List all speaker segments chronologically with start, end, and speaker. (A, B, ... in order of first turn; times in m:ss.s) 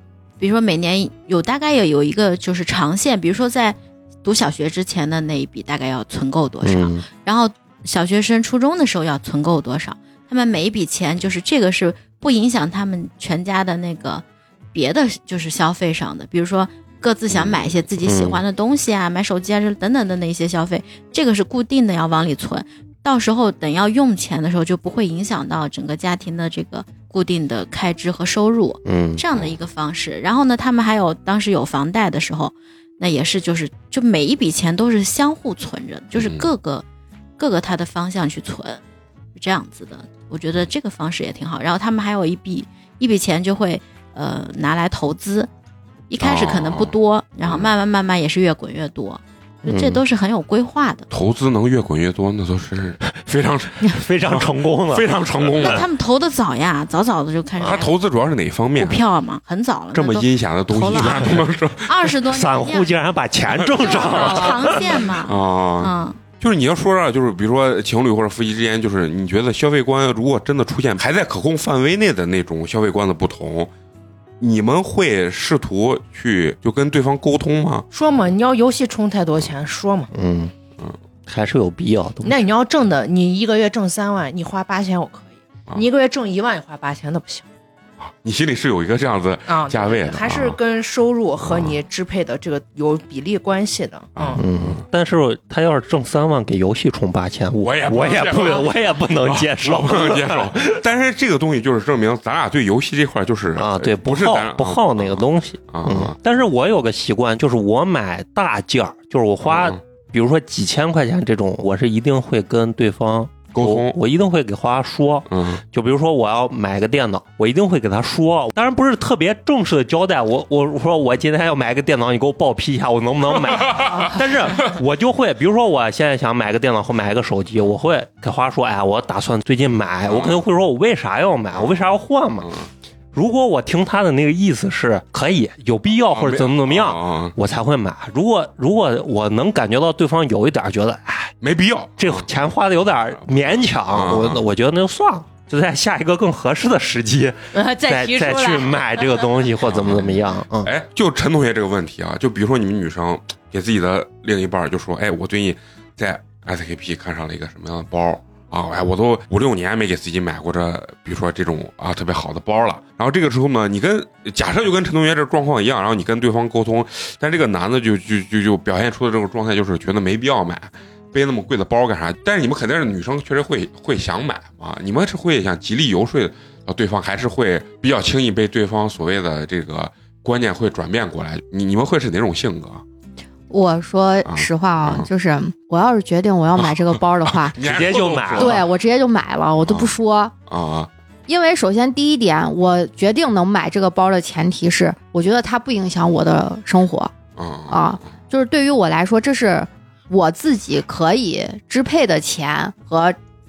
0:00.4-0:36.8 A
0:06.6-0:07.0 B
0:17.3-0:17.6 C
0:18.0-0:18.4 B
0:28.8-0:29.2 B
0:36.2-0:36.5 C
0:37.4-0:38.8 A
0:39.3-0:45.5 A
0:46.1-0:51.1 A
0:46.2-0:46.9 C
0:49.6-0:50.0 B
0:51.1-0:55.8 C
0:53.8-0:55.1 B
0:55.6-0:57.9 A
0:57.6-0:59.0 C
0:58.8-1:02.9 A
0:59.9-1:02.0 C
1:02.3-1:05.0 B
1:03.5-1:13.7 C
1:03.8-1:06.2 A
1:14.4-1:17.8 C
1:17.9-1:20.1 D
1:20.1-1:20.5 B
1:21.3-1:22.5 B
1:22.2-1:27.4 D
1:28.0-1:30.6 C
1:29.5-1:34.4 D
1:34.2-1:34.8 C
1:34.4-1:40.8 B
1:37.6-1:46.2 C
1:43.6-2:12.5 B
1:49.4-1:49.8 C
1:53.5-1:54.0 C
1:55.3-1:55.6 C
2:03.5-2:04.1 C
2:10.0-2:10.4 C
2:13.1-2:21.3 B
2:16.1-2:17.4 C
2:21.4-2:22.3 C
2:22.0-2:30.7 B
2:23.9-2:24.4 C
2:27.5-2:29.2 D
2:29.7-3:02.8 C
3:03.5-3:07.6 E
3:04.2-3:05.1 C
3:06.6-3:08.6 C
3:07.6-3:08.6 B
3:08.4-3:10.3 E
3:09.6-3:09.9 C
3:10.5-3:10.9 C
3:11.3-3:17.1 E
3:17.4-3:18.1 C
3:17.7-3:23.2 E